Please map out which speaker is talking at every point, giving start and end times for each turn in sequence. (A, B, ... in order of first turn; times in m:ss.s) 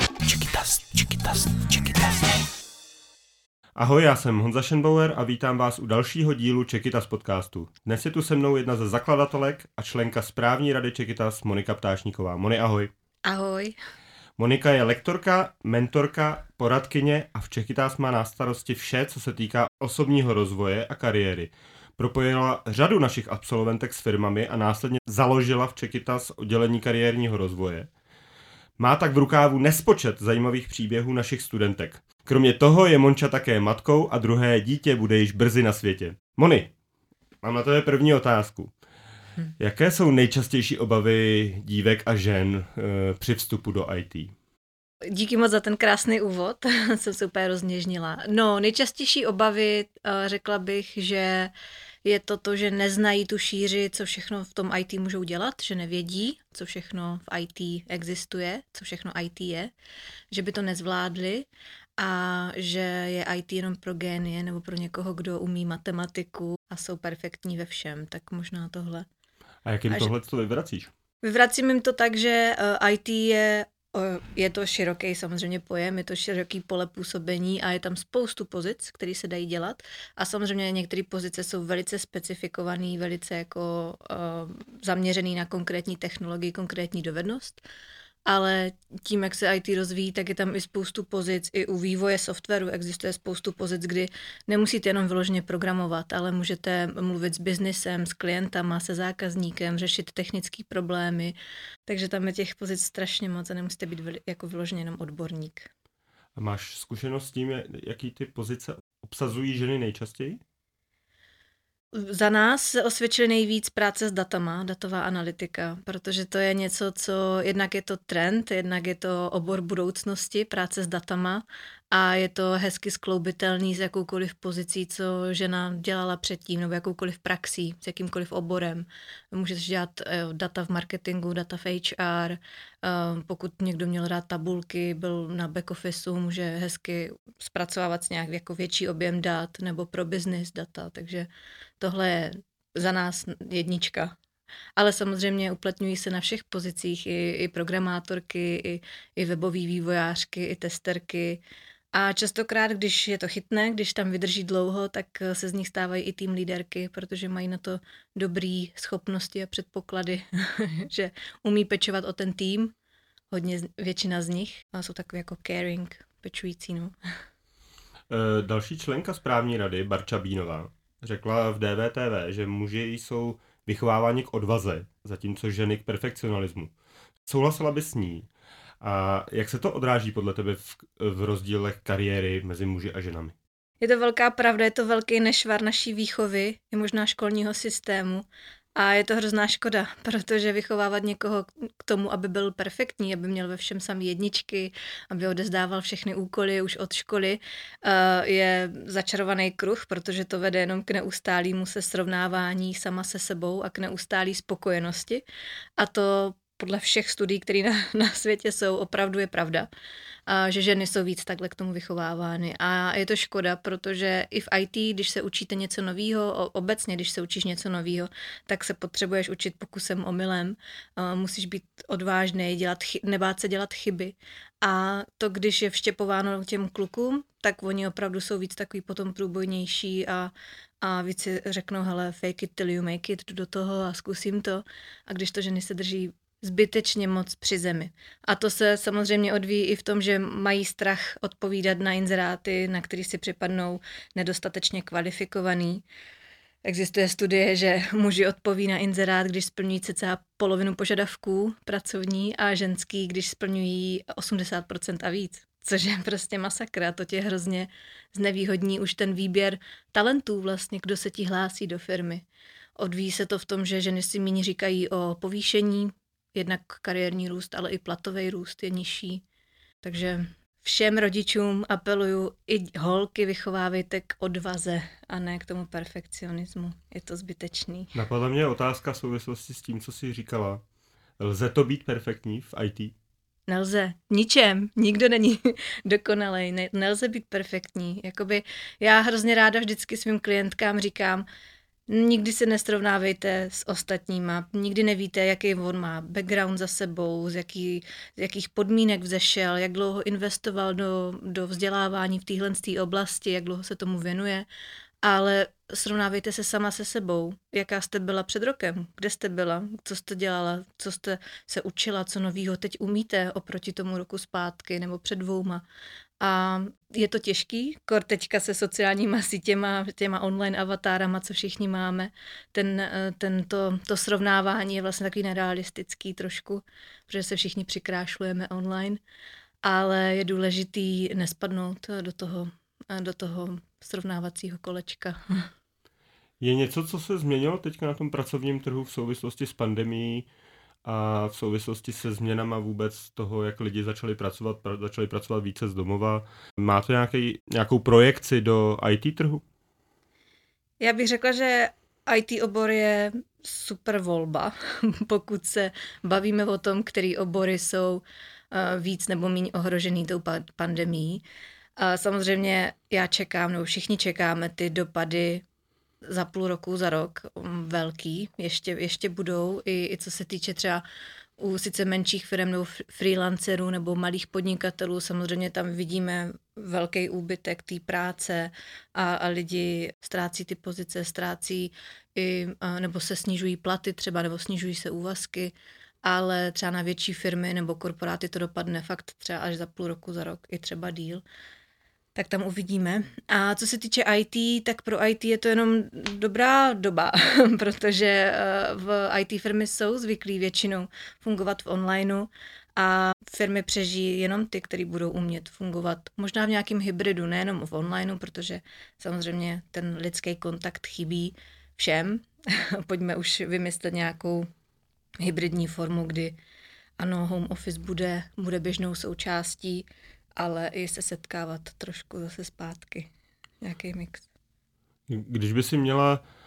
0:00.2-0:02.5 A
0:03.8-0:12.9 B
0:13.3-0:13.8 C
0:14.4-0:27.9 B
0:28.8-0:36.7 B
0:37.4-0:38.7 B
0:39.6-0:44.3 B
0:45.1-0:51.5 C
0:52.0-0:59.7 C
1:00.3-1:01.5 C
1:02.0-1:09.1 C
1:09.6-1:10.9 B
1:11.2-1:27.6 C
1:28.3-1:41.4 C
1:41.9-1:45.7 C
1:46.4-1:50.4 B
1:51.9-2:21.3 C
2:21.8-2:24.2 C
2:24.8-2:31.4 C
2:31.9-2:42.7 C
2:43.3-2:46.9 C
2:48.1-2:56.7 B
2:57.3-2:58.3 B
2:58.8-3:03.4 B
3:03.8-3:25.2 C
3:25.8-3:29.7 C
3:30.3-4:05.8 C
4:06.6-4:22.2 C
4:22.8-4:29.2 C
4:29.8-4:37.9 C
4:38.0-4:40.6 B
4:41.2-4:42.9 B
4:43.5-4:51.3 C
4:51.9-5:04.5 C
5:05.0-5:15.6 C
5:16.2-5:29.0 C
5:29.6-5:35.5 C
5:36.4-5:40.3 B
5:40.8-5:49.4 B
5:50.8-6:01.2 C
6:01.8-6:05.4 C
6:06.1-6:10.8 C
6:11.4-6:31.2 C
6:32.2-6:54.5 C
6:55.2-6:56.4 C
6:57.0-7:04.3 C
7:05.1-7:06.2 B